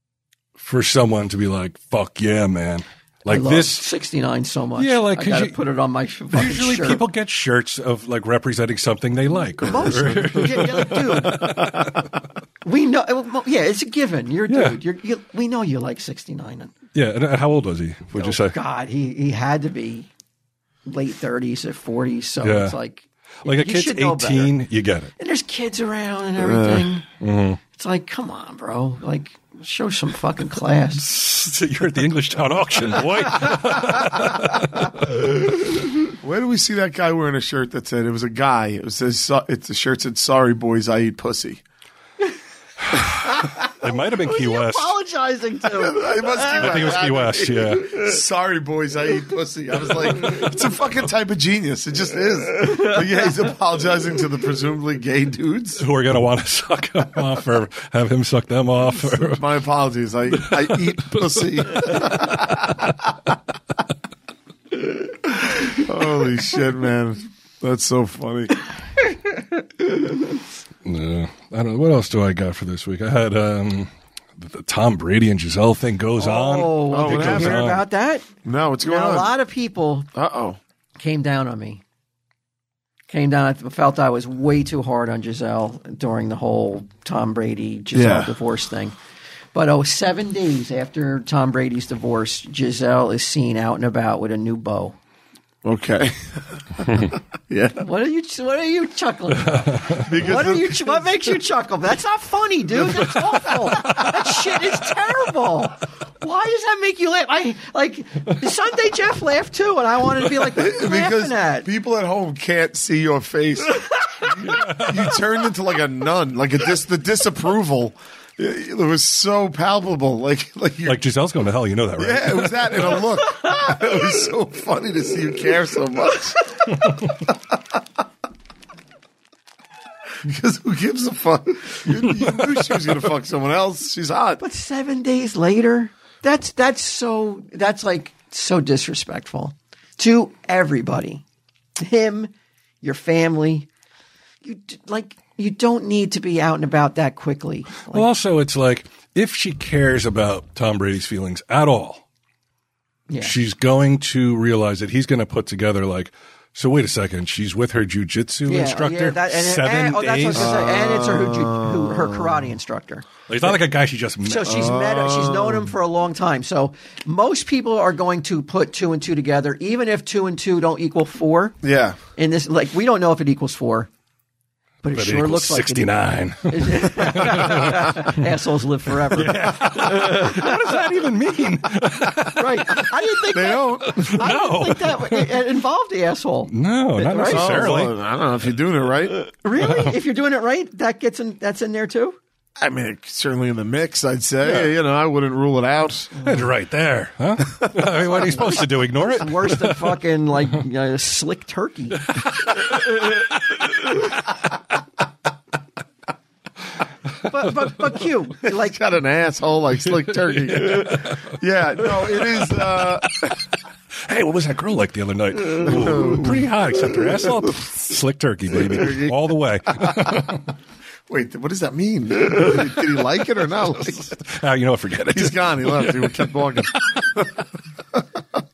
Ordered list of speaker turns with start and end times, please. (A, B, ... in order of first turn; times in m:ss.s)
0:00.6-0:03.8 A
0:03.3-0:07.0 B
0:04.8-0:05.6 A
0:06.3-0:12.1 A
0:09.6-0:11.6 B
0:09.9-0:10.4 C
0:11.4-0:11.9 C
0:12.6-0:16.7 B
0:14.5-0:14.8 A
0:16.9-0:18.6 A
0:18.1-0:20.1 B
0:20.8-0:24.5 B
0:22.4-0:22.8 A
0:23.4-0:25.1 A
0:25.2-0:27.0 B
0:26.4-0:27.0 C
0:27.2-0:27.6 A
0:27.7-0:31.1 B
0:31.0-0:35.3 A
0:36.2-0:41.6 C
0:42.8-0:44.9 A
0:43.0-0:46.9 B
0:45.7-0:55.8 C
0:46.5-0:48.0 A
0:55.8-0:59.5 A
0:59.0-1:02.9 C
1:00.4-1:02.5 A
1:05.6-1:08.6 C
1:10.8-1:17.8 A
1:16.2-1:18.3 B
1:16.9-1:17.7 C
1:18.4-1:19.3 C
1:18.8-1:20.1 B
1:20.1-1:20.6 C
1:21.0-1:21.8 B
1:23.1-1:29.0 B
1:27.9-1:28.3 C
1:29.5-1:35.0 B
1:35.6-1:37.8 C
1:37.8-1:51.7 B
1:39.5-1:40.1 A
1:40.0-1:41.2 C
1:43.8-1:44.2 A
1:50.4-2:01.0 C
1:54.6-1:55.0 A
2:00.8-2:03.0 A
2:02.0-2:06.6 C
2:10.2-2:14.4 C
2:14.4-2:21.2 B
2:21.8-2:23.7 B
2:24.4-2:28.1 B
2:27.9-2:32.0 A
2:33.1-2:33.4 B
2:33.2-2:40.6 A
2:38.4-2:43.6 B
2:40.3-2:42.5 C
2:43.3-2:44.7 A
2:44.2-2:51.6 B
2:44.4-2:45.7 C
2:51.6-2:52.0 C
2:52.2-2:53.9 B
2:54.8-2:55.9 B
2:54.9-2:58.2 A
2:56.4-3:00.8 B
2:59.1-3:03.0 A
3:02.3-3:07.8 B
3:03.3-3:04.2 C
3:03.8-3:05.4 A
3:06.5-3:07.9 A
3:07.2-3:09.2 C
3:09.3-3:12.2 B
3:09.6-3:09.9 A
3:12.6-3:16.1 C
3:16.1-3:16.5 B
3:16.2-3:20.0 A
3:18.0-3:22.8 B
3:22.4-3:23.2 A
3:27.2-3:28.8 B
3:28.4-3:33.4 C
3:30.0-3:32.7 A
3:34.0-3:40.5 A
3:35.6-3:37.5 C
3:38.5-3:39.2 C
3:39.8-3:40.2 C
3:41.1-3:44.1 C
3:43.8-3:47.0 A
3:45.1-3:48.0 C